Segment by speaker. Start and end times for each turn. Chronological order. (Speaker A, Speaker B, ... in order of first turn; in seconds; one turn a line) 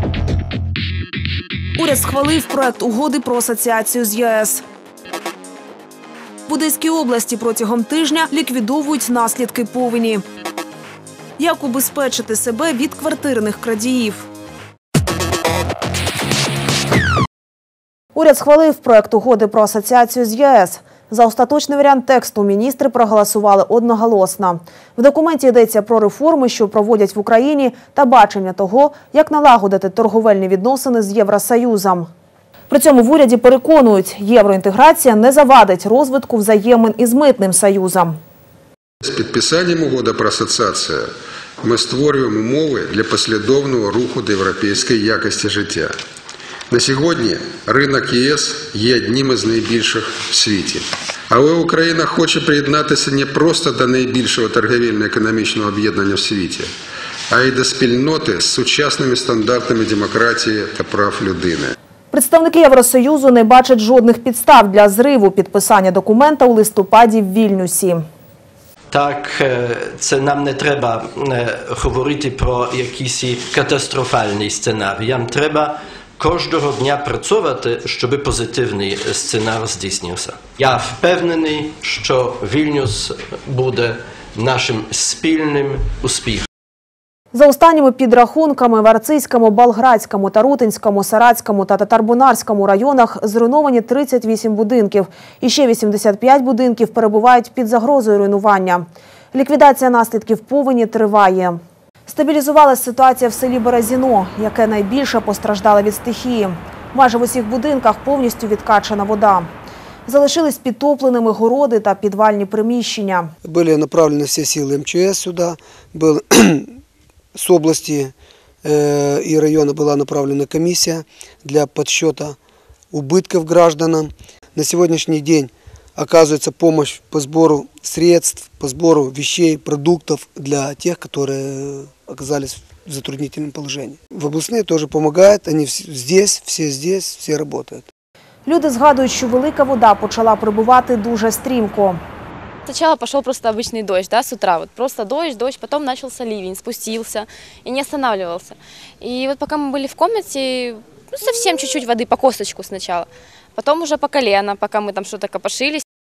Speaker A: 1.8-4.6
Speaker A: 6.5-10.2
Speaker A: 11.4-14.3
Speaker A: 18.1-32.1
Speaker A: 32.7-38.2
Speaker B: 39.0-41.1
Speaker B: 41.6-45.9
Speaker B: 46.7-56.7
Speaker B: 57.3-61.7
Speaker A: 62.1-68.0
Speaker C: 68.9-86.5
Speaker A: 87.3-109.5
Speaker A: 110.1-113.3
Speaker D: 113.4-116.8
Speaker D: 117.3-122.4
Speaker D: 122.9-137.8
Speaker A: 138.5-142.0
Speaker E: 142.7-155.8